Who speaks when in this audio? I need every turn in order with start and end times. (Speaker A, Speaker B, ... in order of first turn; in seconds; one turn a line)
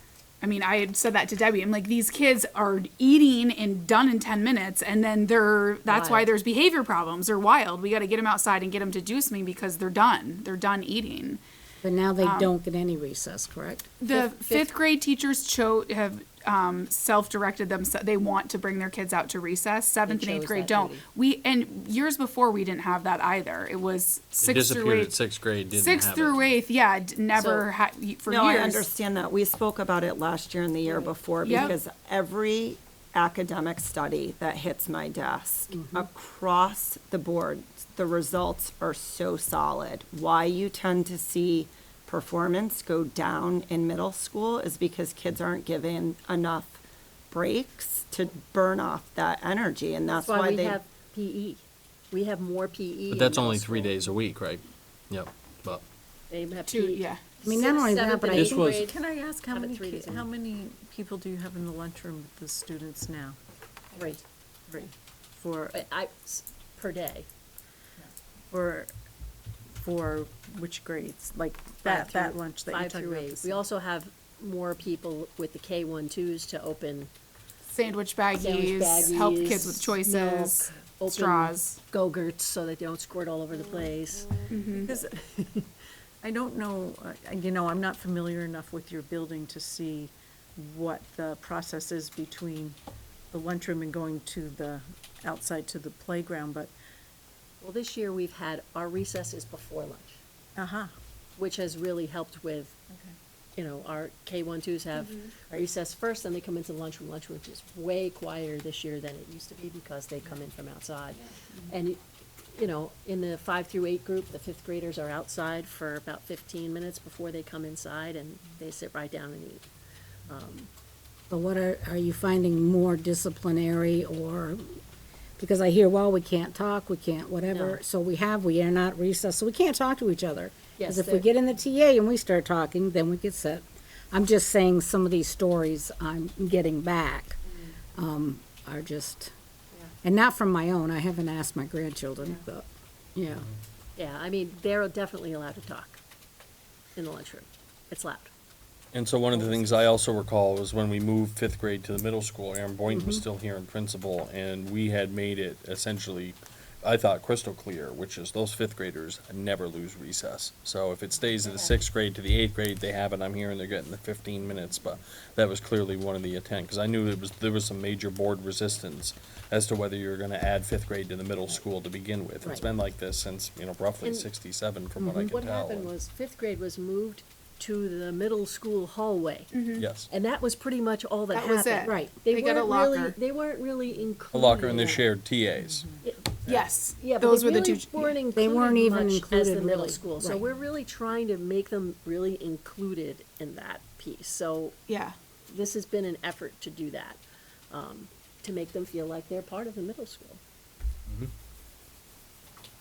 Speaker A: 0.4-11.4
Speaker B: 5.9-6.3
Speaker C: 11.8-13.9
Speaker A: 12.2-12.5
Speaker A: 14.0-25.1
Speaker B: 14.1-14.7
Speaker B: 20.1-21.0
Speaker D: 24.4-26.5
Speaker A: 25.7-28.9
Speaker B: 27.3-27.7
Speaker E: 28.3-46.8
Speaker B: 30.9-31.7
Speaker A: 31.4-31.7
Speaker C: 35.7-36.0
Speaker E: 47.3-50.8
Speaker B: 50.1-53.9
Speaker D: 53.1-55.8
Speaker B: 56.3-60.2
Speaker A: 56.7-57.2
Speaker C: 57.4-58.7
Speaker D: 58.4-58.8
Speaker F: 58.7-63.4
Speaker B: 64.0-64.2
Speaker F: 64.7-65.8
Speaker B: 65.7-67.3
Speaker F: 68.5-68.9
Speaker F: 69.8-73.6
Speaker B: 71.8-77.1
Speaker A: 77.7-81.8
Speaker B: 78.3-85.7
Speaker A: 84.5-84.9
Speaker F: 84.8-85.2
Speaker F: 86.2-92.8
Speaker F: 93.3-96.7
Speaker B: 97.6-100.2
Speaker F: 100.5-100.9
Speaker B: 101.4-102.8
Speaker B: 103.5-119.6
Speaker B: 120.3-120.7
Speaker C: 121.3-124.8
Speaker C: 125.4-137.4
Speaker B: 127.5-127.8
Speaker B: 130.8-131.3
Speaker C: 137.9-139.3
Speaker C: 140.0-143.5
Speaker B: 143.9-146.0
Speaker B: 146.9-148.3
Speaker D: 148.9-175.9
Speaker B: 149.3-149.8
Speaker C: 152.9-153.2
Speaker B: 174.0-174.3
Speaker C: 175.0-175.3
Speaker B: 175.3-185.1
Speaker A: 179.5-179.9
Speaker D: 179.8-180.1
Speaker A: 181.3-183.2
Speaker C: 181.8-182.1
Speaker D: 184.3-185.8
Speaker F: 185.6-185.9
Speaker B: 186.0-194.8
Speaker A: 186.4-188.2
Speaker C: 188.3-190.4
Speaker A: 194.9-195.1
Speaker B: 195.5-200.4